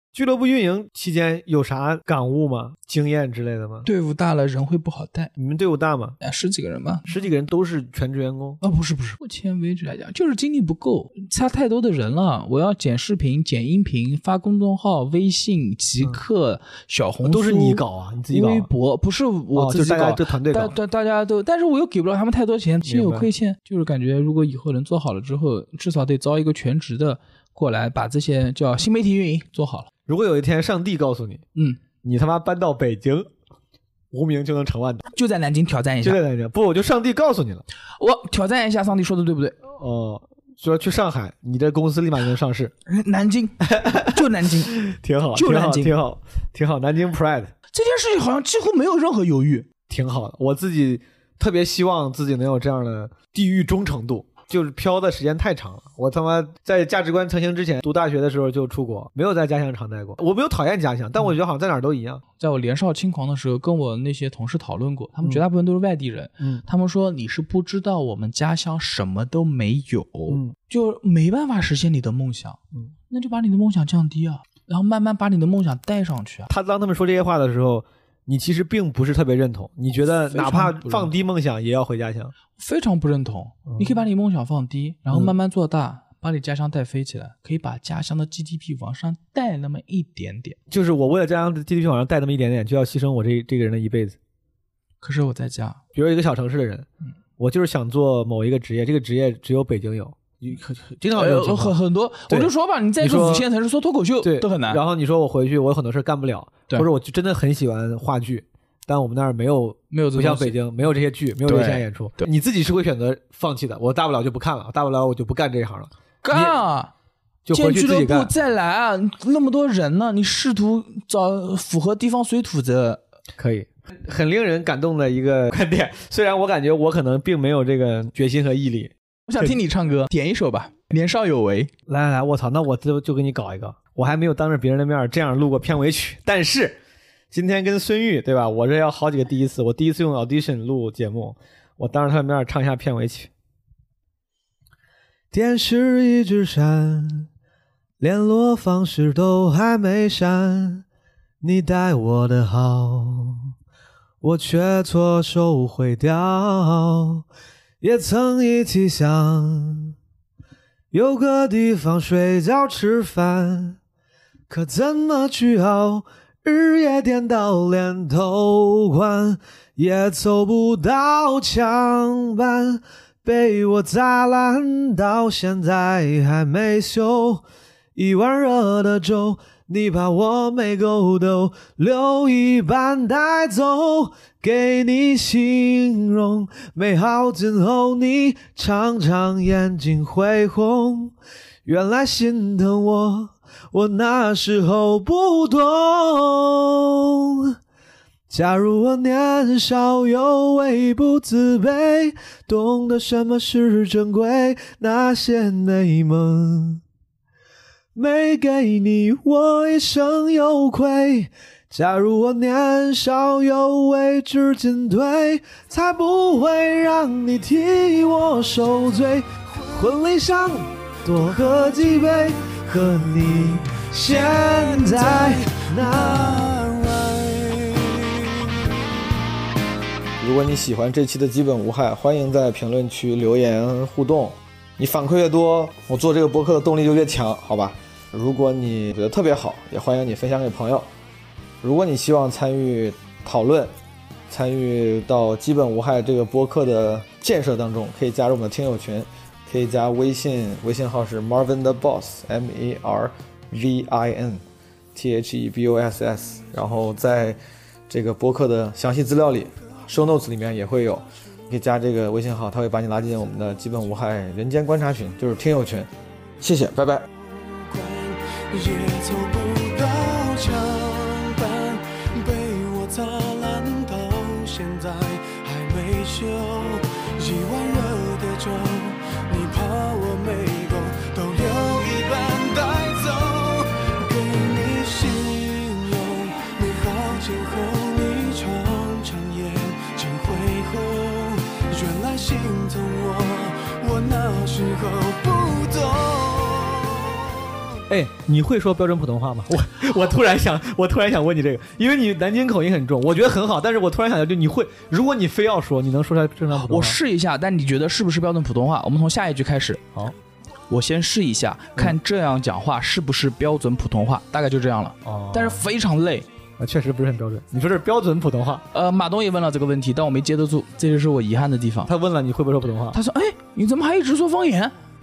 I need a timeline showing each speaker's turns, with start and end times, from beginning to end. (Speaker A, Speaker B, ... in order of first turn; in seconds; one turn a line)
Speaker A: 0.1-3.9
Speaker B: 3.9-5.3
Speaker A: 5.4-6.2
Speaker B: 6.2-7.1
Speaker A: 7.1-8.6
Speaker B: 8.6-29.9
Speaker A: 17.2-18.7
Speaker A: 19.5-20.8
Speaker A: 22.9-23.3
Speaker A: 30.1-31.4
Speaker B: 31.6-31.8
Speaker A: 32.0-33.3
Speaker A: 34.1-35.1
Speaker B: 35.1-36.2
Speaker A: 36.0-37.6
Speaker B: 38.0-39.6
Speaker A: 39.7-42.7
Speaker B: 42.9-44.8
Speaker A: 43.7-44.2
Speaker A: 44.8-47.5
Speaker B: 45.3-46.0
Speaker B: 47.7-49.7
Speaker A: 49.9-62.2
Speaker B: 62.4-76.5
Speaker A: 70.3-70.5
Speaker A: 76.5-82.3
Speaker B: 80.3-81.1
Speaker B: 82.6-90.6
Speaker A: 83.7-84.0
Speaker A: 90.7-94.2
Speaker B: 95.0-95.8
Speaker A: 95.9-96.9
Speaker A: 97.4-101.8
Speaker B: 101.1-104.8
Speaker A: 102.3-103.5
Speaker A: 104.2-116.6
Speaker B: 109.9-110.6
Speaker B: 111.5-111.8
Speaker B: 116.2-116.9
Speaker A: 117.5-118.3
Speaker B: 117.5-123.0
Speaker A: 123.4-129.5
Speaker B: 129.3-131.7
Speaker A: 131.9-136.8
Speaker A: 137.3-143.3
Speaker A: 145.3-147.3
Speaker A: 148.0-150.8
Speaker A: 151.4-153.5
Speaker A: 154.2-157.2
Speaker A: 157.8-159.9
Speaker A: 160.9-163.8
Speaker A: 164.5-177.4
Speaker A: 178.0-197.6
Speaker A: 198.3-206.8
Speaker A: 207.9-226.6
Speaker C: 224.1-228.8
Speaker D: 230.2-240.9
Speaker D: 241.6-243.7
Speaker D: 244.3-254.4
Speaker D: 254.9-265.9
Speaker D: 266.4-267.1
Speaker C: 267.3-297.5
Speaker A: 297.9-307.0
Speaker B: 306.5-309.9
Speaker B: 310.7-316.3
Speaker A: 315.0-315.6
Speaker A: 316.6-318.6
Speaker B: 318.7-321.9
Speaker A: 321.9-323.0
Speaker B: 322.9-324.7